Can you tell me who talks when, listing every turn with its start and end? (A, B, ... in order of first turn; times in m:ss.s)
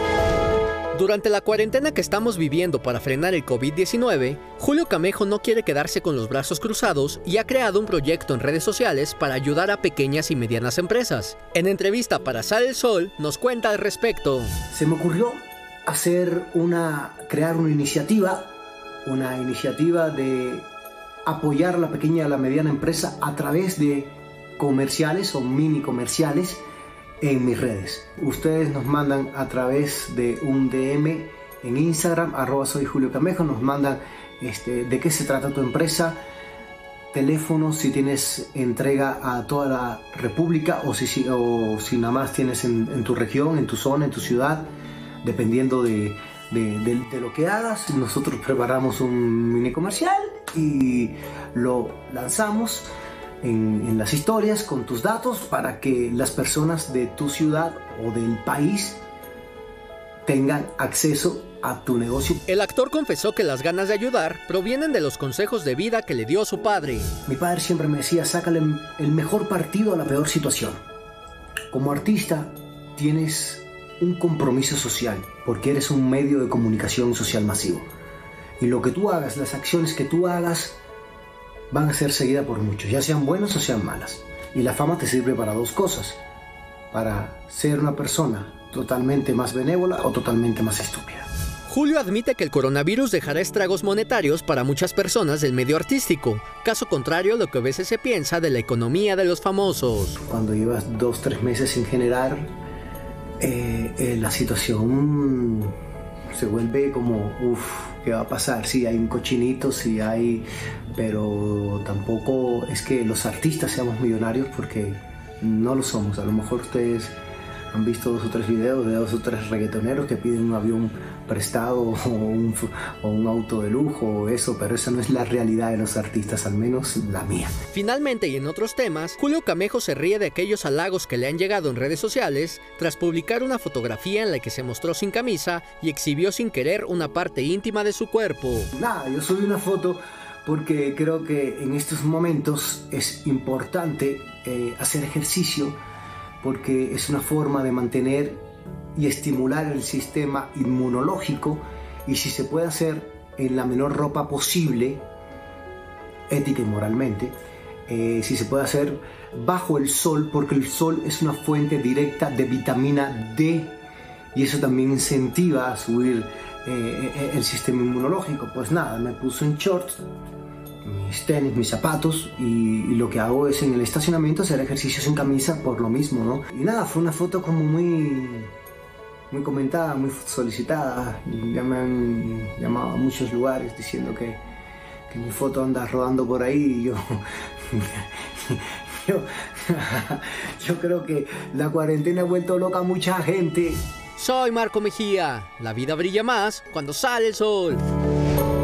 0:00.9-0:14.5 A
0:14.7-0:18.5 B
0:19.0-0:20.7 B
0:21.2-0:26.6 B
0:27.2-0:36.2 B
0:37.1-0:44.7 B
0:45.2-0:52.9 B
0:53.4-0:59.0 B
1:00.2-1:02.4 B
1:02.5-1:07.1 A
1:07.2-1:10.8 B
1:11.7-1:17.9 B
1:18.6-1:20.8 B
1:21.7-1:26.2 B
1:26.9-1:31.3 B
1:31.7-1:40.2 A
1:40.2-1:42.5 B
1:43.4-1:45.7 B
1:46.3-1:57.2 B
1:57.7-2:07.5 B
2:07.7-2:18.7 A
2:18.7-2:25.8 B
2:26.4-2:28.4 B
2:29.0-2:35.0 B
2:36.3-2:43.8 B
2:44.3-2:50.0 B
2:50.8-2:58.5 B
2:59.3-3:04.4 B
3:05.1-3:13.8 B
3:14.2-3:17.8 A